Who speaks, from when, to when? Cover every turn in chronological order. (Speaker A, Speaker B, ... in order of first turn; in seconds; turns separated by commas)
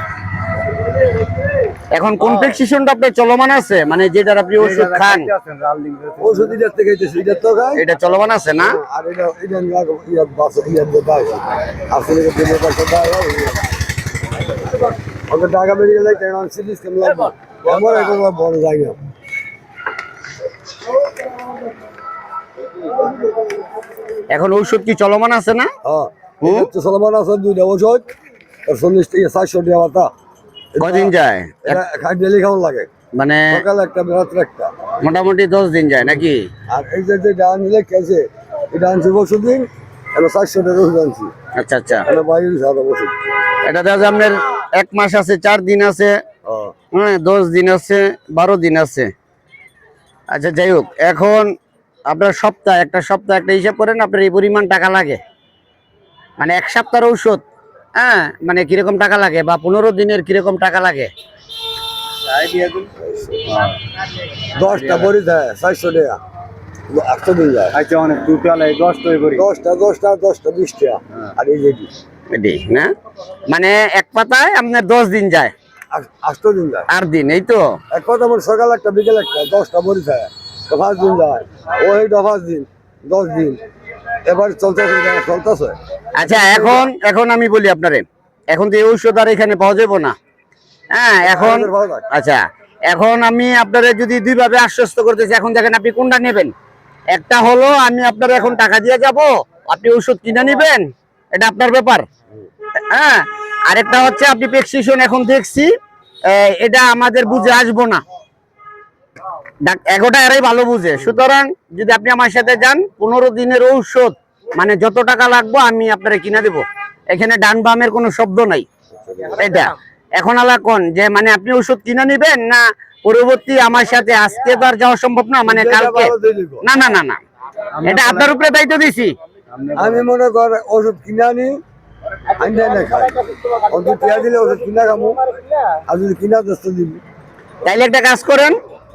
Speaker A: 1.9-5.3, Speaker B: 4.6-6.6, Speaker C: 6.2-7.9, Speaker A: 7.8-8.8, Speaker C: 8.6-13.6, Speaker C: 15.3-19.0, Speaker A: 24.3-25.7, Speaker C: 25.8-28.1, Speaker A: 26.4-26.7, Speaker C: 28.7-30.1, Speaker C: 30.8-31.1, Speaker A: 30.8-31.8, Speaker C: 31.7-32.9, Speaker A: 33.2-33.5, Speaker C: 33.5-34.7, Speaker A: 35.0-36.5, Speaker C: 36.7-41.3, Speaker A: 41.5-42.1, Speaker C: 42.0-43.1, Speaker A: 43.6-46.2, Speaker C: 46.5-46.7, Speaker A: 46.9-49.1, Speaker A: 50.3-51.5, Speaker A: 52.1-55.2, Speaker A: 56.4-57.4, Speaker A: 58.0-61.1, Speaker B: 62.2-62.9, Speaker C: 63.0-63.4, Speaker B: 63.5-63.8, Speaker C: 64.5-66.2, Speaker B: 64.7-65.1, Speaker C: 66.9-67.8, Speaker B: 67.7-69.5, Speaker C: 69.3-71.9, Speaker A: 72.3-72.9, Speaker A: 73.5-75.5, Speaker C: 75.9-76.9, Speaker A: 76.9-77.6, Speaker C: 77.9-83.6, Speaker C: 84.2-86.9, Speaker A: 86.2-90.2, Speaker A: 90.9-96.5, Speaker C: 91.2-92.0, Speaker A: 97.2-102.1, Speaker A: 102.9-105.7, Speaker A: 106.3-108.0, Speaker A: 109.7-118.7, Speaker C: 119.0-119.5, Speaker A: 119.4-126.1, Speaker C: 125.5-126.7, Speaker A: 126.6-127.2, Speaker B: 127.8-128.3, Speaker A: 127.8-129.2, Speaker B: 129.5-130.1, Speaker C: 129.8-131.6, Speaker C: 132.4-135.2, Speaker C: 135.9-137.0, Speaker A: 137.6-138.6